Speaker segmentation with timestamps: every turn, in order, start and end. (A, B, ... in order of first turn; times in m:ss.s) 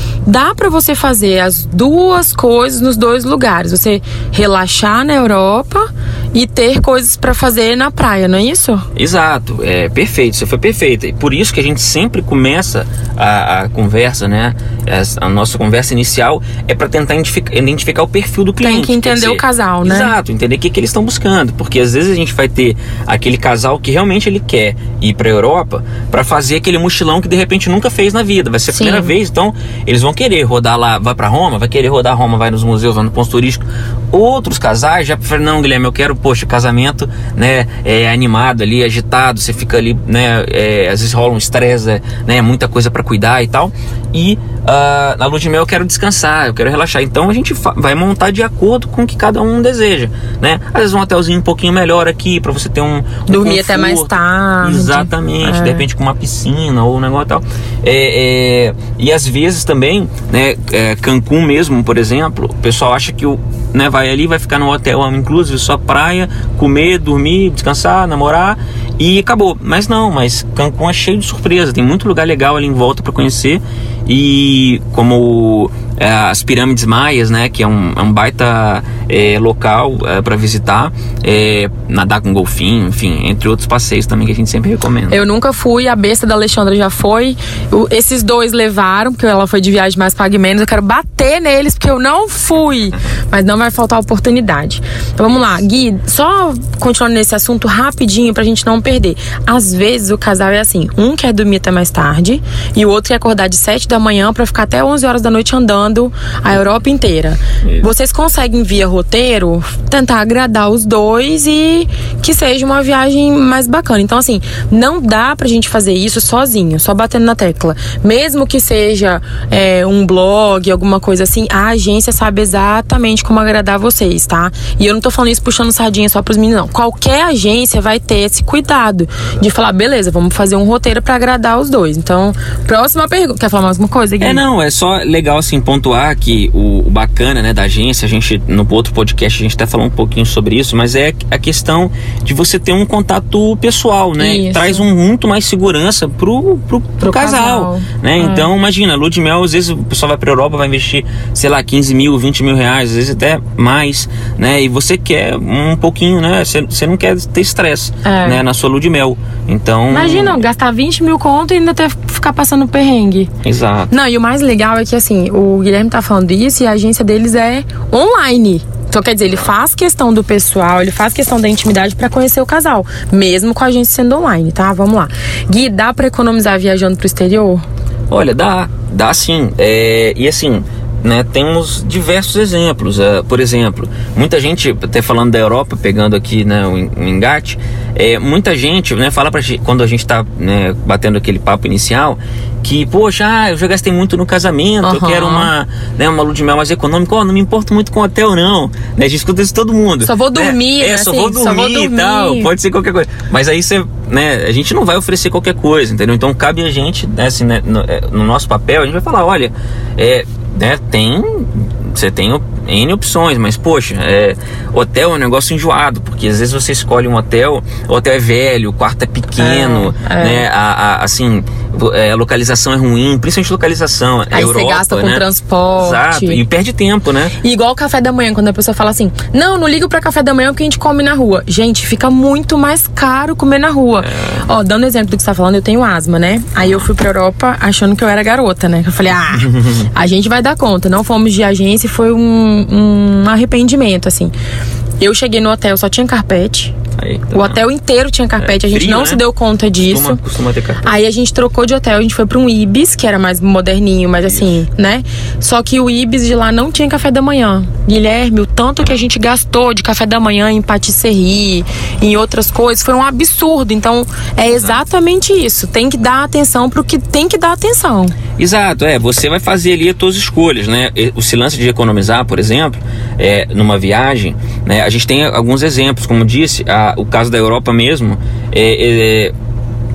0:00.2-0:08.9 A
0:08.9-1:25.2 B
0:18.6-0:20.1 A
0:28.7-0:29.1 A
0:53.3-0:55.8 A
1:25.1-2:14.4 A
2:14.2-2:40.4 B
2:24.2-2:24.8 A
2:27.0-2:28.5 A
2:38.0-2:38.4 A
2:39.9-2:43.3 A
2:43.4-2:43.9 B
2:43.9-2:57.6 A
2:58.1-3:45.2 B
3:14.8-3:15.5 A
3:20.0-3:22.5 A
3:39.4-3:40.4 A
3:44.3-3:46.4 A
3:45.7-3:47.3 B
3:47.4-4:04.3 A
3:54.0-3:54.4 B
3:56.6-3:56.9 B
3:59.3-3:59.9 B
4:05.0-4:06.7 A
4:07.0-4:07.6 B
4:07.3-4:10.2 A
4:08.4-4:09.2 B
4:09.8-4:10.9 B
4:10.8-4:28.1 A
4:14.2-4:14.6 B
4:24.4-4:24.8 B
4:28.4-4:39.3 B